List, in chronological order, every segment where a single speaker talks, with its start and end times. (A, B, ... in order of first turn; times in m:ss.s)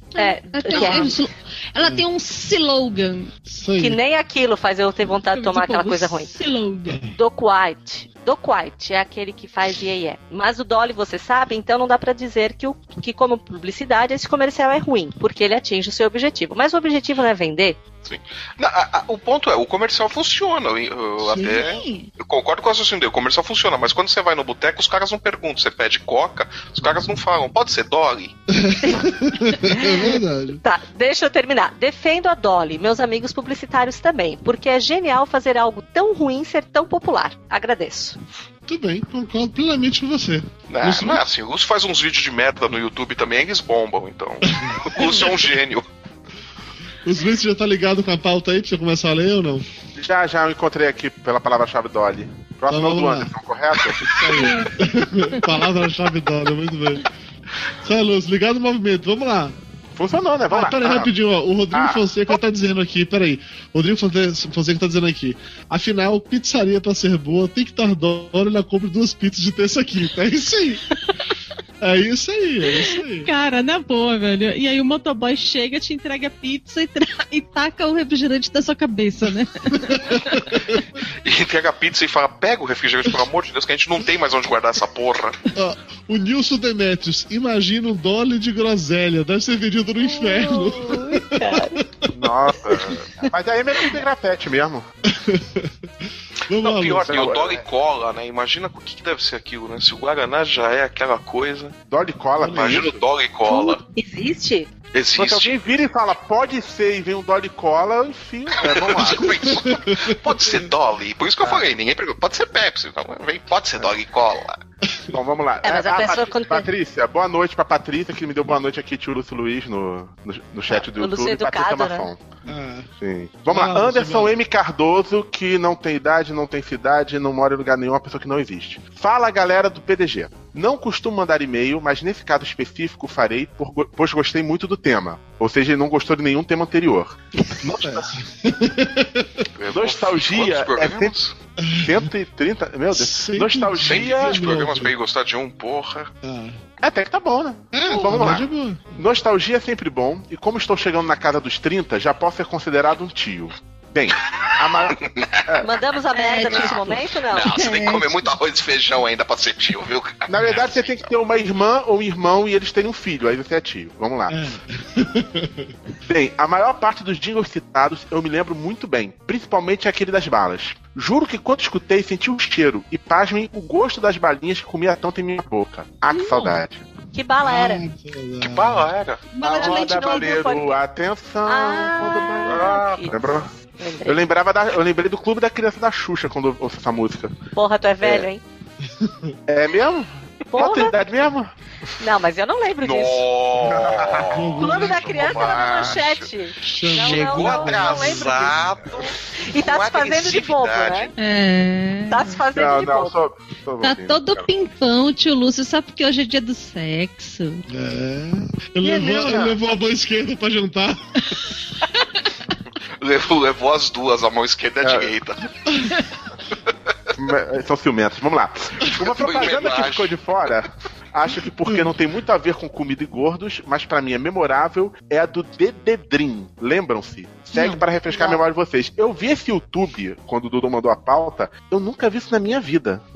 0:00.1-0:03.3 A
0:00.2-0:01.1 B
0:00.7-0:01.1 C
0:01.8-0:02.0 C
0:03.5-0:04.0 C
0:03.8-0:06.3 B
0:05.3-0:07.0 A
0:07.1-0:17.8 B
0:18.0-0:28.3 D
0:21.2-0:21.5 C
0:21.4-0:22.1 A
0:28.5-0:30.6 C
0:29.6-0:38.2 B
0:38.6-0:41.2 C
0:40.7-0:45.8 D
0:47.0-0:49.6 C
0:50.0-0:54.2 E
0:52.7-0:53.3 C
0:54.0-0:57.0 C
0:54.4-0:54.7 A
0:57.8-0:59.6 C
0:59.9-1:01.1 E
1:00.5-1:10.8 C
1:01.7-1:02.1 E
1:11.8-1:13.3 C
1:13.2-1:20.4 A
1:19.7-1:20.6 C
1:21.2-1:25.4 D
1:25.5-1:31.9 C
1:30.0-1:31.8 B
1:32.1-1:34.9 E
1:35.1-1:35.7 C
1:36.5-1:37.1 C
1:36.6-1:41.8 D
1:37.1-1:37.6 E
1:41.9-1:43.0 E
1:42.4-1:42.8 C
1:42.4-1:43.8 D
1:43.5-1:44.7 B
1:44.9-1:45.6 D
1:45.2-1:49.6 E
1:48.6-1:54.6 D
1:49.5-1:50.2 C
1:55.1-2:02.2 E
1:55.6-1:56.7 B
2:00.7-2:02.1 B
2:02.4-2:02.9 C
2:03.0-2:17.2 E
2:03.4-2:04.3 C
2:17.6-2:19.4 C
2:17.7-2:17.9 E
2:19.6-2:21.3 D
2:19.7-2:21.1 E
2:21.6-2:22.1 C
2:21.8-2:24.4 E
2:22.9-2:24.9 C
2:23.8-2:26.1 D
2:26.2-2:26.6 C
2:26.8-2:35.7 E
2:27.7-2:28.8 C
2:34.9-2:35.4 D
2:35.6-2:37.6 B
2:36.1-2:36.7 A
2:36.4-2:41.1 D
2:37.5-2:38.3 A
2:40.3-2:44.4 E
2:44.3-2:45.7 C
2:46.0-2:56.8 E
2:56.1-2:56.6 A
2:57.1-2:57.8 B
2:57.4-2:58.9 C
2:58.4-2:59.2 D
2:59.3-3:00.3 A
2:59.4-3:03.5 E
2:59.4-3:00.8 B
3:01.4-3:04.2 B
3:02.4-3:03.1 D
3:04.0-3:07.3 E
3:07.5-3:08.4 B
3:08.0-3:08.3 E
3:08.8-3:09.3 C
3:09.5-3:11.5 E
3:10.5-3:11.0 B
3:12.0-3:13.2 B
3:12.8-3:16.3 D
3:13.6-3:14.4 E
3:14.3-3:15.2 C
3:14.6-3:18.6 B
3:15.1-3:16.0 E
3:16.6-3:18.1 C
3:17.0-3:21.1 D
3:17.4-3:19.0 E
3:19.5-3:21.1 B
3:21.2-3:22.4 A
3:22.1-3:23.1 B
3:22.5-3:24.5 E
3:23.8-3:27.6 A
3:27.7-3:31.0 C
3:28.9-3:29.5 E
3:33.0-3:35.5 D
3:34.8-3:35.2 E
3:37.2-3:53.0 E
3:39.0-3:40.2 D